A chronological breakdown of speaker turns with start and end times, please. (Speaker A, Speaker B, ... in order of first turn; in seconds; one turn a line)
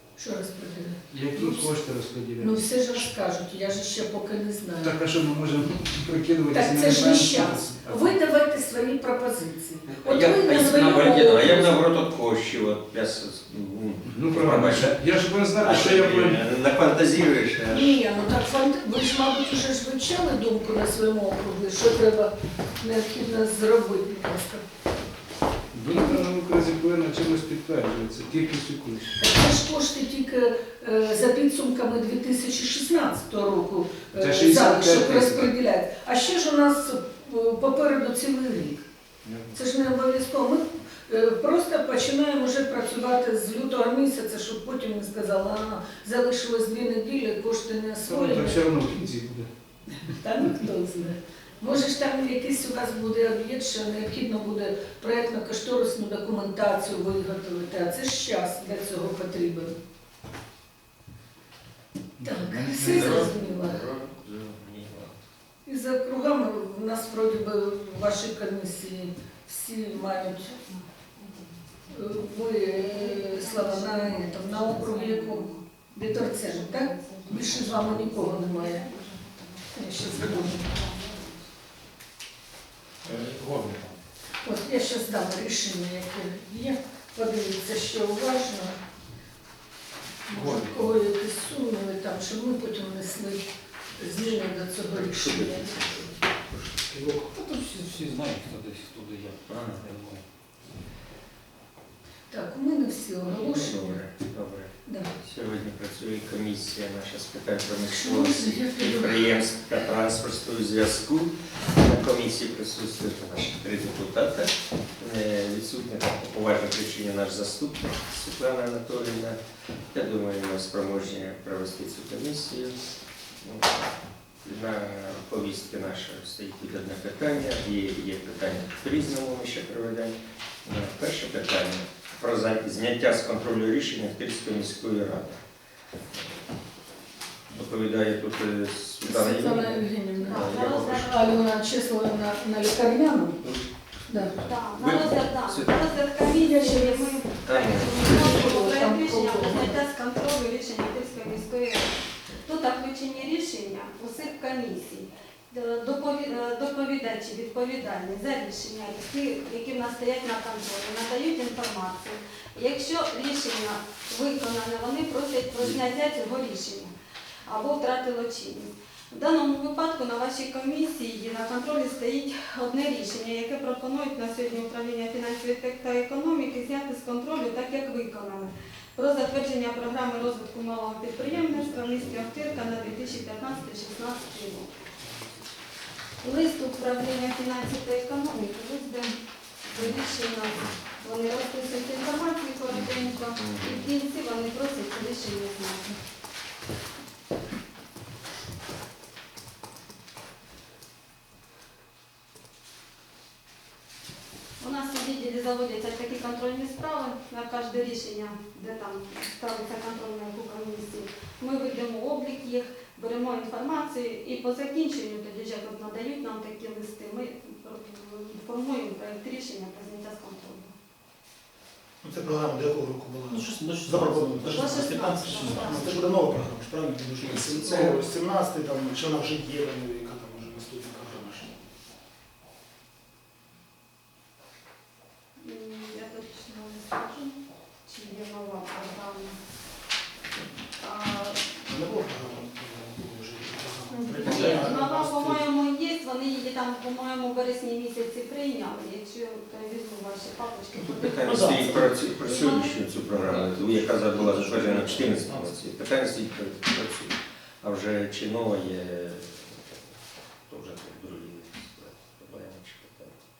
Speaker A: 0.2-1.8
Speaker B: 1.1-2.6
Speaker A: 2.4-5.0
Speaker B: 4.8-8.2
Speaker A: 6.5-11.8
Speaker C: 9.9-15.0
Speaker B: 14.1-16.4
Speaker C: 15.6-18.0
Speaker A: 17.7-24.6
Speaker B: 25.7-29.2
Speaker A: 29.2-38.8
Speaker B: 34.2-35.5
Speaker B: 39.2-39.5
Speaker A: 39.5-48.6
Speaker B: 48.0-49.5
Speaker A: 50.0-59.7
Speaker B: 62.2-63.3
Speaker A: 62.2-63.8
Speaker C: 62.8-65.2
Speaker A: 65.7-70.5
Speaker D: 69.9-71.5
Speaker A: 71.9-78.9
Speaker D: 72.6-81.4
Speaker A: 79.7-80.6
Speaker E: 83.0-83.9
Speaker A: 84.4-88.8
Speaker A: 90.3-93.4
Speaker E: 90.3-90.7
Speaker A: 94.0-96.0
Speaker C: 94.9-96.7
Speaker F: 96.9-97.3
Speaker E: 97.3-100.2
Speaker C: 99.5-99.8
Speaker A: 102.3-104.0
Speaker C: 103.3-119.4
Speaker A: 104.8-105.1
Speaker A: 107.8-109.3
Speaker C: 119.9-122.7
Speaker C: 123.4-135.4
Speaker C: 137.5-141.3
Speaker A: 139.0-143.4
Speaker D: 140.2-141.3
Speaker A: 144.1-144.3
Speaker D: 144.4-166.9
Speaker C: 144.8-145.9
Speaker A: 146.2-147.2
Speaker C: 147.4-148.1
Speaker A: 148.0-149.8
Speaker D: 167.5-184.7
Speaker C: 181.2-183.2
Speaker D: 186.2-195.9
Speaker C: 192.7-193.8
Speaker D: 204.6-220.7
Speaker F: 222.0-231.5
Speaker E: 223.3-225.9
Speaker D: 224.5-226.0
Speaker C: 227.2-228.0
Speaker D: 235.4-239.4
Speaker D: 240.8-241.4
Speaker F: 241.7-245.4
Speaker D: 243.9-251.5
Speaker C: 250.7-259.6
Speaker F: 251.3-251.9
Speaker D: 252.2-252.8
Speaker E: 253.1-255.5
Speaker F: 254.2-254.5
Speaker C: 260.5-263.2